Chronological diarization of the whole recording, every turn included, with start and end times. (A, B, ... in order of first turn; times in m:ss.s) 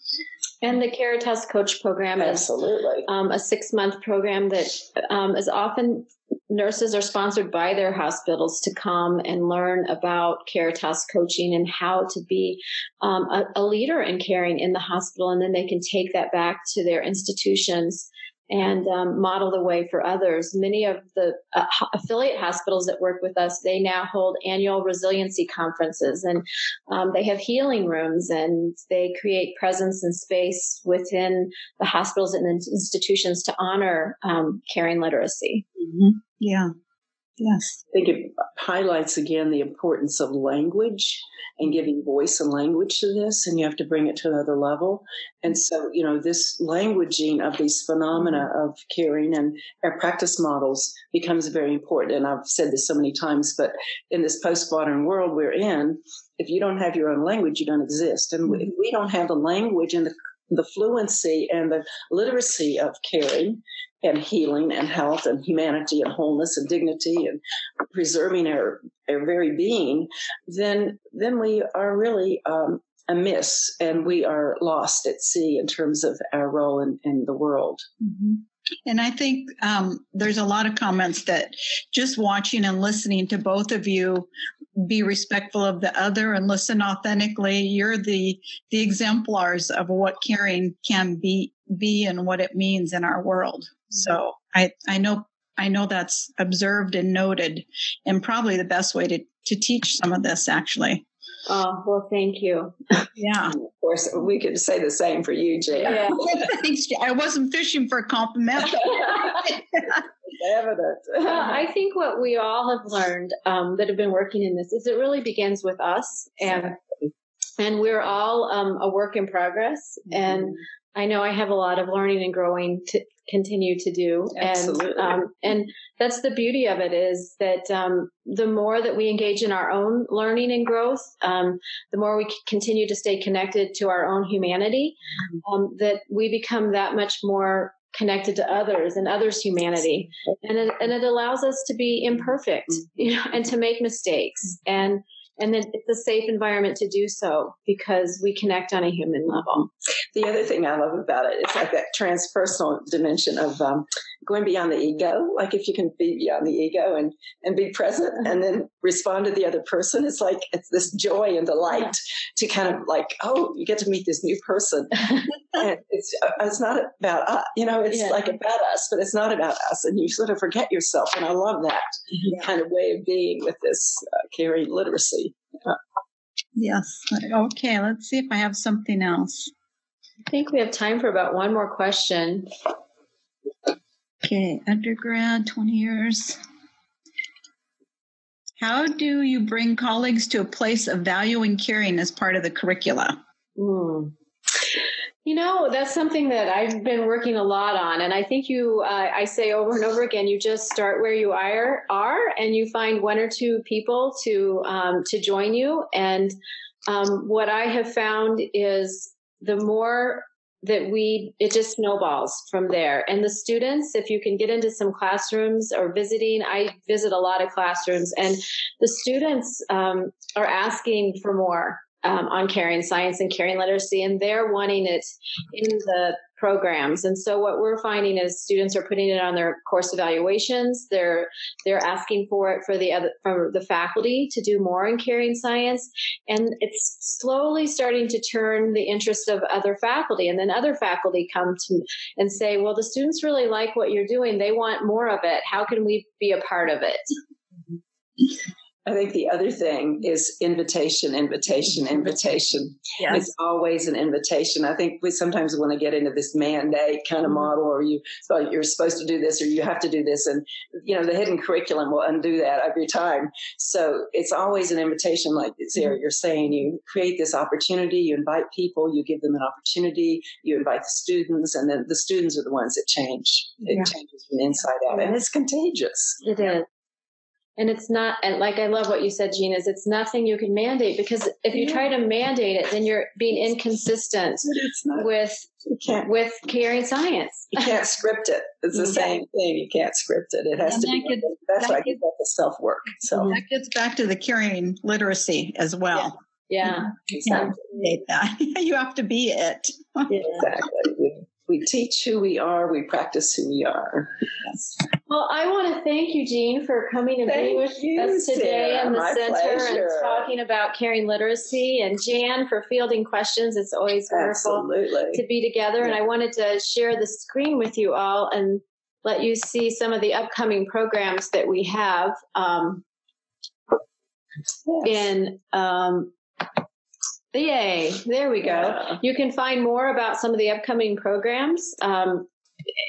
0:00.6-0:02.5 A
0:02.2-0:03.1 B
0:03.0-0:35.6 A
0:35.8-0:36.7 C
0:37.4-0:37.8 C
0:37.9-1:07.4 B
1:07.9-1:17.9 B
1:18.0-1:41.0 C
1:41.5-1:43.0 A
1:43.2-1:43.6 C
1:43.6-1:46.3 B
1:45.8-1:46.2 A
1:46.2-1:50.0 C
1:50.4-1:51.6 B
1:51.2-1:56.8 A
1:57.6-2:29.7 A
2:04.4-2:05.2 B
2:30.1-2:55.8 B
2:47.9-2:48.2 A
2:56.6-2:59.5 C
3:00.2-3:02.5 A
3:04.2-3:06.4 C
3:08.6-3:13.2 C
3:13.6-3:14.1 A
3:15.2-3:26.3 A
3:26.9-4:07.1 A
4:08.8-4:36.2 B
4:36.2-4:36.7 A
4:37.6-4:47.7 A
4:41.6-4:41.8 B
4:44.4-4:45.1 B
4:45.7-4:46.1 B
4:47.5-4:53.4 B
4:48.8-4:49.1 A
4:50.7-4:51.9 C
4:53.2-4:56.7 C
4:56.5-4:57.6 A
4:57.2-5:00.3 C
5:00.2-5:04.1 B
5:05.1-5:22.8 A
5:07.3-5:10.3 B
5:14.1-5:15.2 B
5:24.6-5:25.1 B
5:24.8-5:26.1 A
5:27.3-5:32.3 A
5:28.4-5:29.0 B